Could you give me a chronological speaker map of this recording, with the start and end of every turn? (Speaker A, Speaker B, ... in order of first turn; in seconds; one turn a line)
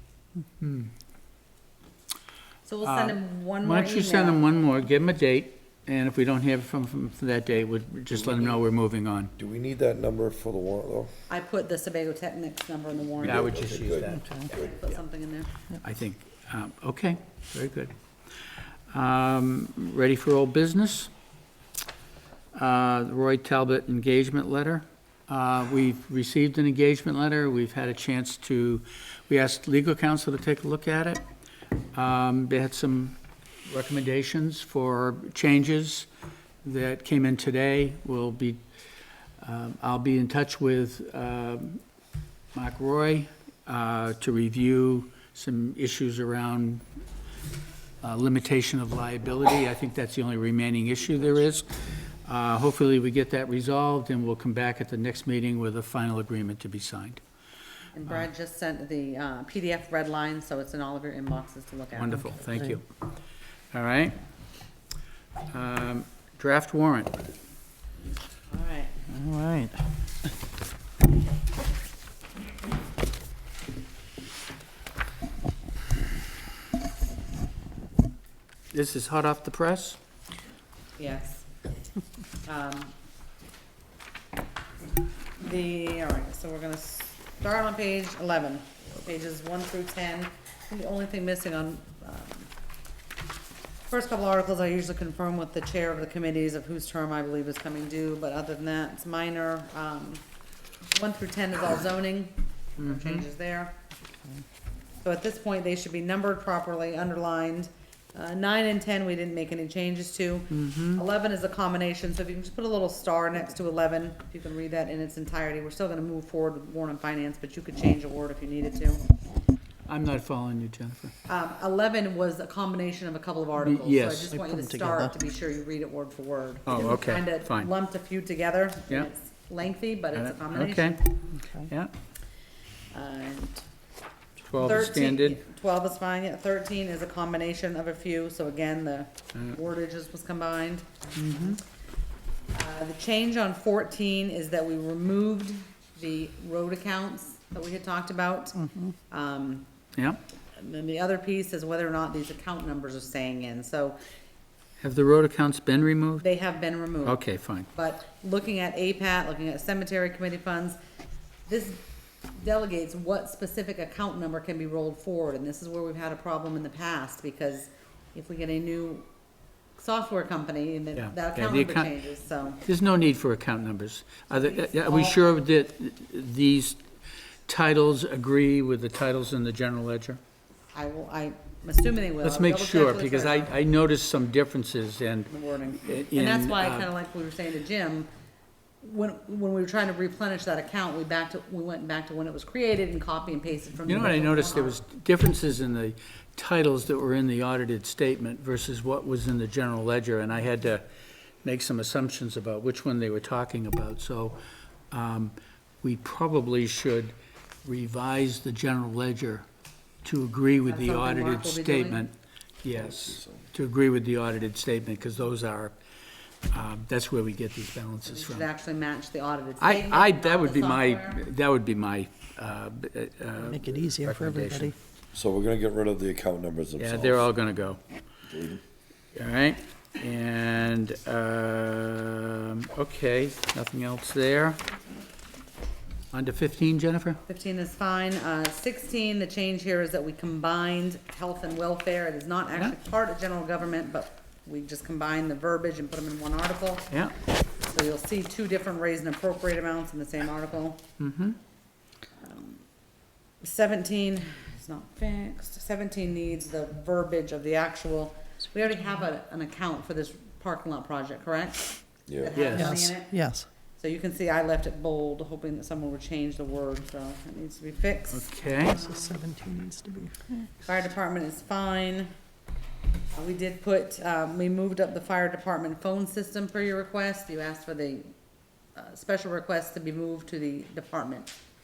Speaker A: 0.6-0.9
Speaker B: 2.6-4.4
Speaker A: 2.8-9.3
Speaker C: 9.4-11.1
Speaker B: 11.3-13.7
Speaker C: 13.2-14.6
Speaker A: 13.2-14.5
Speaker B: 14.5-15.5
Speaker A: 15.8-17.9
Speaker A: 18.9-21.1
Speaker A: 22.5-31.2
Speaker A: 31.9-36.1
Speaker A: 36.6-38.6
Speaker A: 39.4-41.8
Speaker A: 42.5-46.8
Speaker A: 48.0-51.7
Speaker A: 52.2-57.2
Speaker B: 58.0-62.4
Speaker A: 61.9-62.8
Speaker A: 63.7-64.2
Speaker A: 65.5-67.2
Speaker B: 68.5-68.9
Speaker D: 69.1-69.8
Speaker A: 78.7-80.0
Speaker B: 81.0-81.5
Speaker B: 82.5-82.9
Speaker B: 85.4-92.5
Speaker B: 93.9-100.2
Speaker B: 100.9-103.8
Speaker A: 102.8-103.2
Speaker B: 105.0-119.0
Speaker A: 110.5-111.0
Speaker A: 119.9-121.1
Speaker B: 121.3-131.0
Speaker A: 123.6-124.3
Speaker D: 124.3-125.1
Speaker A: 126.7-127.7
Speaker A: 130.2-131.1
Speaker D: 131.3-131.7
Speaker A: 131.6-131.9
Speaker B: 132.9-133.7
Speaker A: 134.5-135.4
Speaker B: 134.6-140.9
Speaker A: 141.2-141.6
Speaker B: 142.5-149.7
Speaker B: 150.6-154.0
Speaker A: 154.8-156.2
Speaker B: 156.2-160.8
Speaker A: 157.0-157.7
Speaker B: 161.5-169.1
Speaker B: 169.8-172.6
Speaker A: 170.9-171.9
Speaker A: 172.6-176.8
Speaker B: 174.3-175.2
Speaker A: 177.5-180.2
Speaker B: 180.7-183.5
Speaker A: 182.2-186.9
Speaker B: 185.3-188.1
Speaker B: 188.8-194.8
Speaker A: 193.8-200.8
Speaker A: 201.4-204.4
Speaker A: 204.9-207.1
Speaker A: 207.6-209.4
Speaker A: 210.0-212.1
Speaker B: 210.7-212.0
Speaker A: 212.6-215.7
Speaker C: 212.7-213.5
Speaker A: 216.5-218.5
Speaker B: 218.1-221.2
Speaker A: 219.6-224.7
Speaker D: 223.4-224.8
Speaker C: 225.1-227.2
Speaker A: 226.8-227.8
Speaker C: 228.3-228.6
Speaker A: 229.2-234.6
Speaker A: 236.1-237.2
Speaker B: 237.3-246.9
Speaker B: 247.6-250.8
Speaker A: 251.0-251.4
Speaker B: 252.2-252.6
Speaker B: 253.4-263.2
Speaker C: 262.1-262.4
Speaker A: 262.3-262.8
Speaker D: 262.6-263.5
Speaker B: 263.7-269.2
Speaker A: 268.1-268.8
Speaker D: 268.7-270.5
Speaker B: 270.6-272.1
Speaker B: 273.1-278.1
Speaker B: 278.7-281.3